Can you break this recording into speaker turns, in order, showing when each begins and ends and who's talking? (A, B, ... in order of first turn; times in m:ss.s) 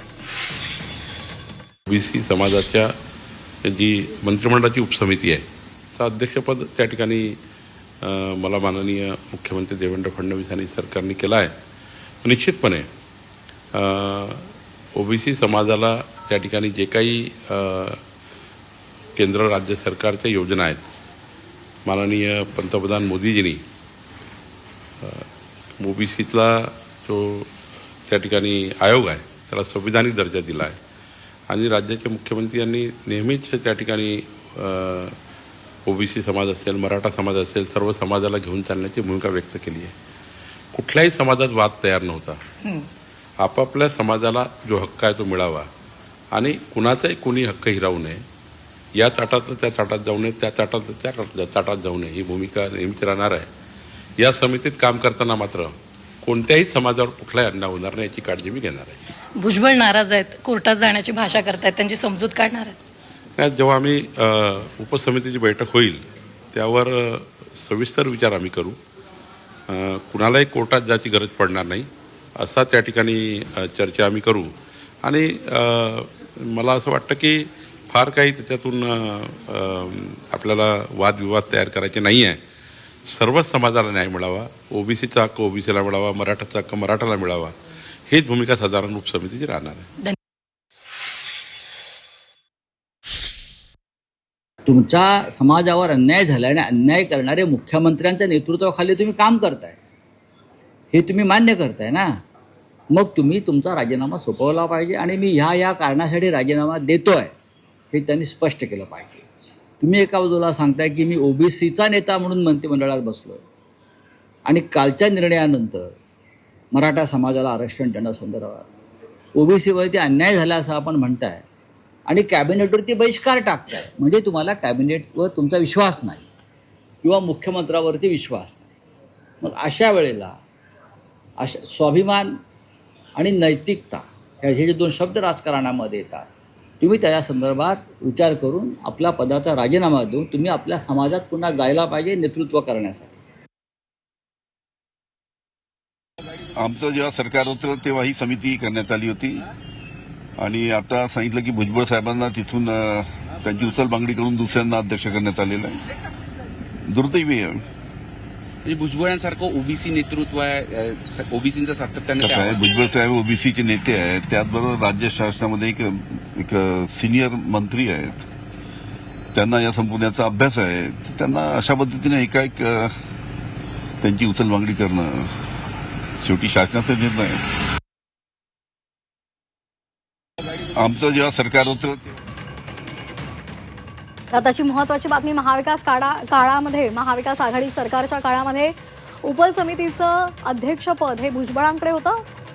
0:01.9-0:02.9 A
0:03.7-0:05.4 A
0:06.0-0:07.4 A
0:08.0-0:11.5 A
0:12.2-0:12.9 A
0:13.8-0:18.0 A
0:19.2-0:20.9 A
0:21.9-0:23.6 A
0:25.0-0:25.3 A
0:25.8-0:27.5 A
0:28.1-0:30.8 A
0:31.5-0:35.2 A
0:35.9-0:39.9 A
0:40.7-0:42.4 A
0:43.4-0:45.7 A
0:46.3-0:48.2 A
0:49.0-0:53.5 A
0:54.2-0:59.0 A
0:59.4-1:02.8 B
1:03.4-1:06.0 A
1:06.5-1:08.8 A
1:09.7-1:11.9 A
1:12.4-1:14.5 A
1:15.0-1:22.4 A
1:23.1-1:27.5 A
1:28.1-1:29.9 A
1:34.7-1:39.8 C
1:40.9-1:42.1 C
1:42.9-1:47.3 C
1:47.9-1:49.2 C
1:49.8-1:53.4 C
1:54.5-1:55.9 C
1:56.7-1:58.7 C
1:59.4-2:01.5 C
2:02.1-2:06.3 C
2:07.0-2:08.7 C
2:09.4-2:10.4 C
2:11.4-2:12.4 C
2:13.2-2:16.3 C
2:16.8-2:23.1 C
2:26.5-2:29.5 D
2:30.4-2:35.8 D
2:36.8-2:37.6 D
2:38.6-2:42.6 E
2:42.2-2:48.2 D
2:49.3-2:52.9 D
2:54.0-2:55.3 D
2:56.2-2:57.4 D
3:00.7-3:02.1 D
3:04.3-3:12.2 F